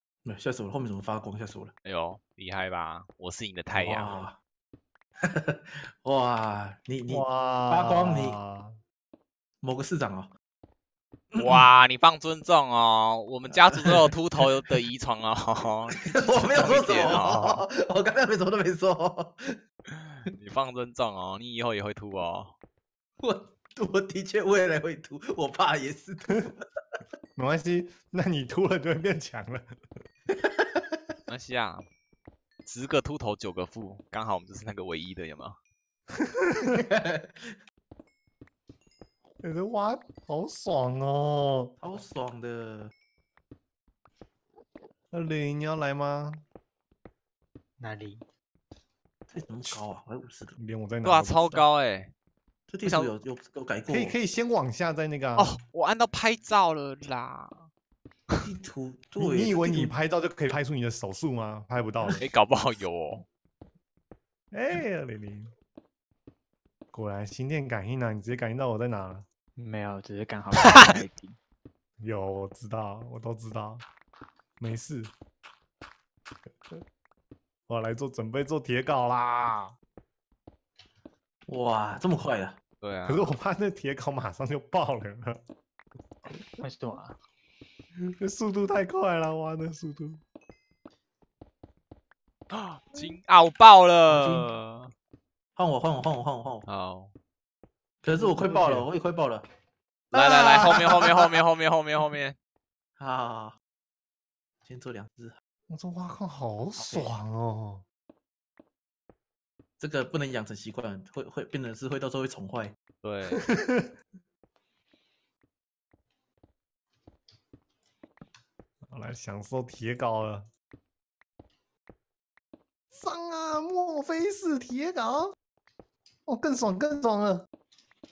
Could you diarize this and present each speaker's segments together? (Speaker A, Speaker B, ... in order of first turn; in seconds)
Speaker A: 0.2-1.7, 3.7-4.4, 5.2-8.4, 9.6-10.3, 11.3-11.6, 13.5-14.7, 15.9-19.6, 23.2-26.8, 30.3-31.0, 36.6-37.6, 41.8-42.9, 49.3-50.6, 52.7-54.2, 58.4-59.9, 81.5-82.6, 94.1-94.5, 95.5-96.7, 98.0-99.5, 100.1-101.4, 103.0-103.6, 104.6-105.4, 106.8-107.1, 109.8-112.8
Speaker B: 1.8-4.3, 11.3-17.5, 19.9-22.5, 31.3-31.8, 32.6-35.6, 51.0-52.1, 52.8-53.1, 55.4-57.7, 62.2-63.2, 82.8-83.3, 92.5-94.9, 96.7-97.1, 100.1-102.3, 113.0-113.4
Speaker C: 7.1-8.8, 27.4-29.6, 36.3-36.8, 39.4-41.7, 45.1-46.4, 50.6-51.7, 53.9-55.6, 59.1-62.2, 64.5-65.5, 66.9-69.2, 72.0-73.8, 74.6-75.1, 77.7-79.8, 83.0-85.4, 88.2-90.2, 98.1-98.9, 105.7-107.8, 113.4-113.9, 118.8-120.5, 122.9-125.3, 126.3-127.5
Speaker D: 47.8-48.2, 69.6-71.4, 86.6-87.2